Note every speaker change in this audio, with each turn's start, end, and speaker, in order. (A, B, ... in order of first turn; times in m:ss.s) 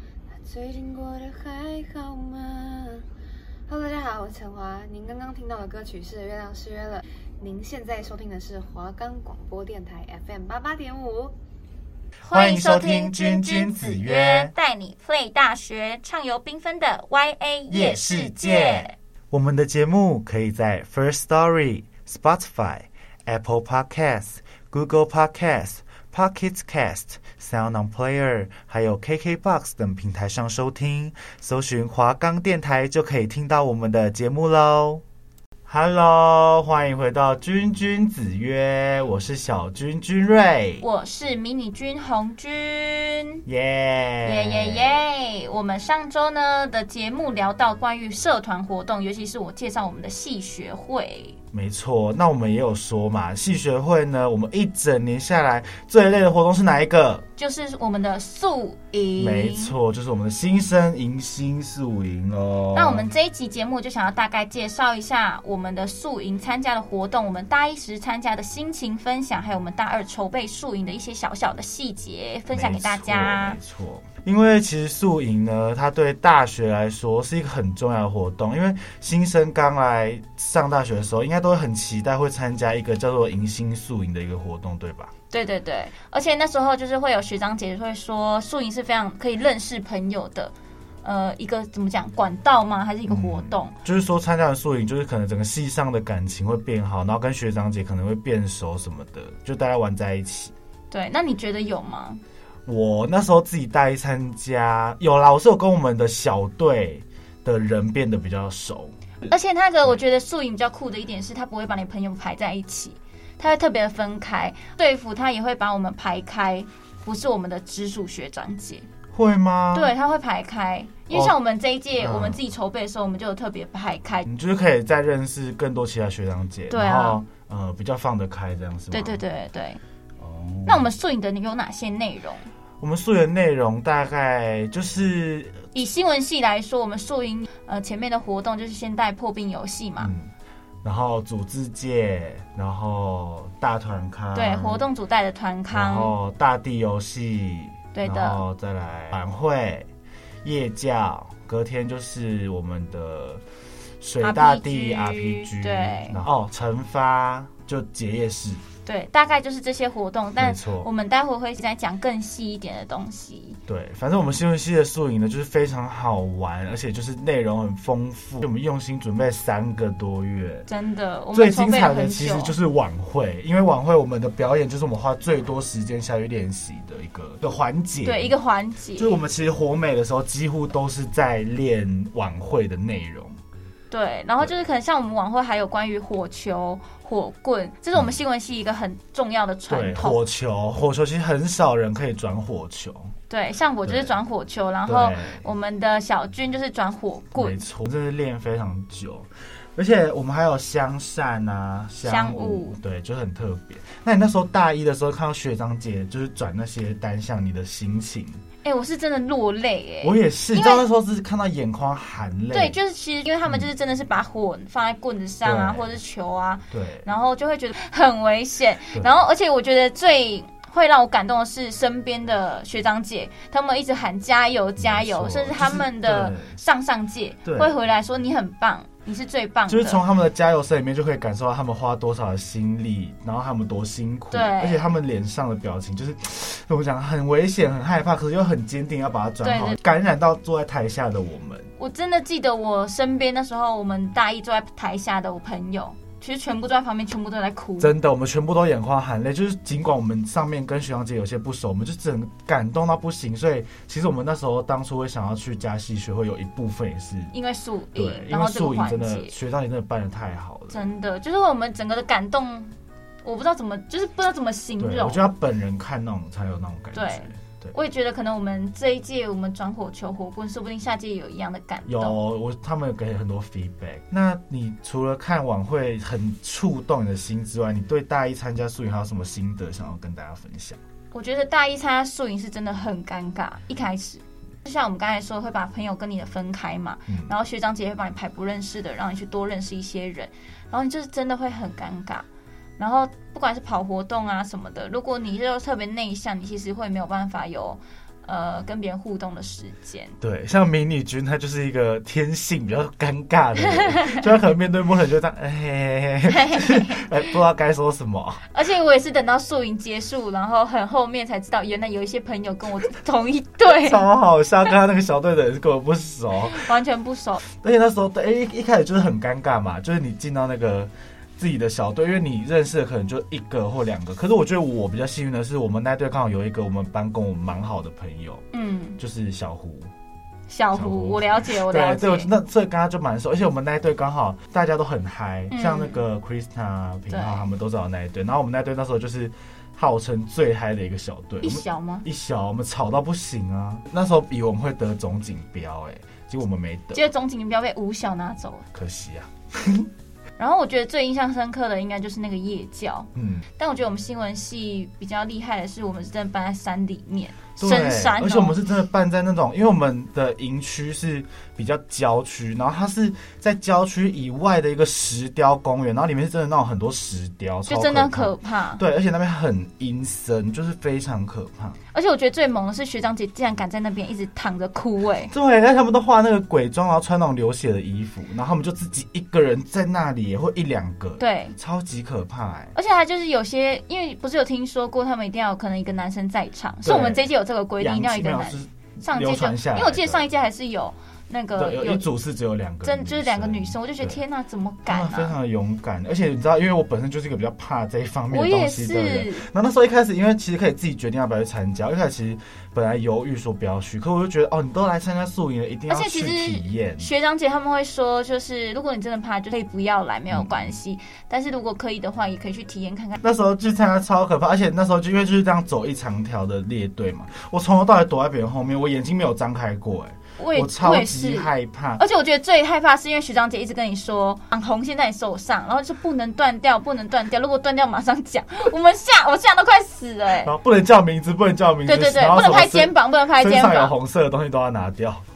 0:00.3-0:03.0 A
0:03.7-0:11.4 A
0:12.2-0:18.9 B
0:12.3-0:14.5 C
0:17.7-0:35.0 C
0:35.7-0:40.8 C
0:40.8-0:43.4 B
0:43.5-0:45.0 C
0:44.2-0:51.4 B
0:51.5-0:57.3 C
0:57.4-0:59.8 B
0:59.2-1:03.1 C
1:02.7-1:13.6 B
1:12.5-1:25.1 C
1:25.3-1:33.8 B
1:33.1-1:40.5 C
1:40.9-1:42.2 B
1:42.7-1:48.9 C
1:49.2-1:58.9 B
1:59.1-1:59.9 C
1:59.7-2:04.3 B
2:01.1-2:01.4 C
2:02.0-2:02.4 C
2:04.2-2:09.2 C
2:06.7-2:07.2 B
2:08.9-2:09.8 B
2:10.2-2:10.9 C
2:10.7-2:12.5 B
2:12.8-2:15.7 C
2:15.7-2:20.1 B
2:20.0-2:20.3 C
2:20.8-2:24.8 C
2:24.3-2:26.1 B
2:25.7-2:29.9 C
2:27.9-2:28.4 B
2:30.4-2:33.4 C
2:34.0-2:38.6 C
2:34.2-2:36.2 B
2:38.9-2:43.6 B
2:40.4-2:40.9 C
2:43.7-2:50.7 C
2:50.7-2:52.6 B
2:51.3-2:58.3 C
2:58.0-2:59.2 B
2:59.0-3:03.4 C
3:03.9-3:10.2 B
3:09.7-3:13.1 C
3:13.3-3:17.6 B
3:13.9-3:14.2 C
3:14.9-3:15.4 C
3:17.4-3:28.4 C
3:22.0-3:22.8 B
3:28.6-3:30.8 B
3:30.0-3:32.8 C
3:32.5-3:50.0 B
3:35.4-3:35.9 C
3:36.7-3:37.1 C
3:44.8-3:46.6 C
3:47.4-3:47.7 C
3:49.7-4:01.7 C
3:54.3-3:54.9 B
3:59.4-3:59.8 B
4:01.8-4:07.9 B
4:07.8-4:17.3 C
4:17.3-4:19.4 B
4:18.0-4:20.9 C
4:20.7-4:22.7 B
4:23.2-4:25.2 B
4:24.8-4:27.8 C
4:26.9-4:32.2 B
4:31.9-4:40.8 C
4:41.1-4:52.3 B
4:52.8-5:00.2 B
5:00.2-5:08.4 C
5:03.6-5:04.2 B
5:06.2-5:07.3 B
5:08.5-5:14.1 B
5:13.7-5:16.7 C
5:16.5-5:17.4 B
5:17.5-5:28.4 C
5:28.5-5:29.0 B
5:29.0-5:29.9 C
5:30.5-5:32.3 B
5:30.7-5:47.1 C
5:35.5-5:36.0 B
5:37.1-5:37.5 B
5:41.4-5:42.0 B
5:46.9-5:48.7 B
5:48.7-5:49.9 C
5:50.4-5:58.6 B
5:53.2-5:53.5 C
5:57.6-6:11.8 C
6:07.7-6:08.8 B
6:11.9-6:15.3 B
6:15.3-6:22.8 C
6:21.2-6:21.6 B
6:22.8-6:32.1 B
6:26.8-6:30.2 C
6:31.6-6:34.2 C
6:32.8-6:35.4 B
6:34.9-6:47.1 C
6:38.3-6:39.5 B
6:45.9-6:53.2 B
6:50.3-6:50.7 C
6:53.2-7:02.0 C
7:00.4-7:10.5 B
7:10.4-7:15.2 C
7:11.9-7:13.9 B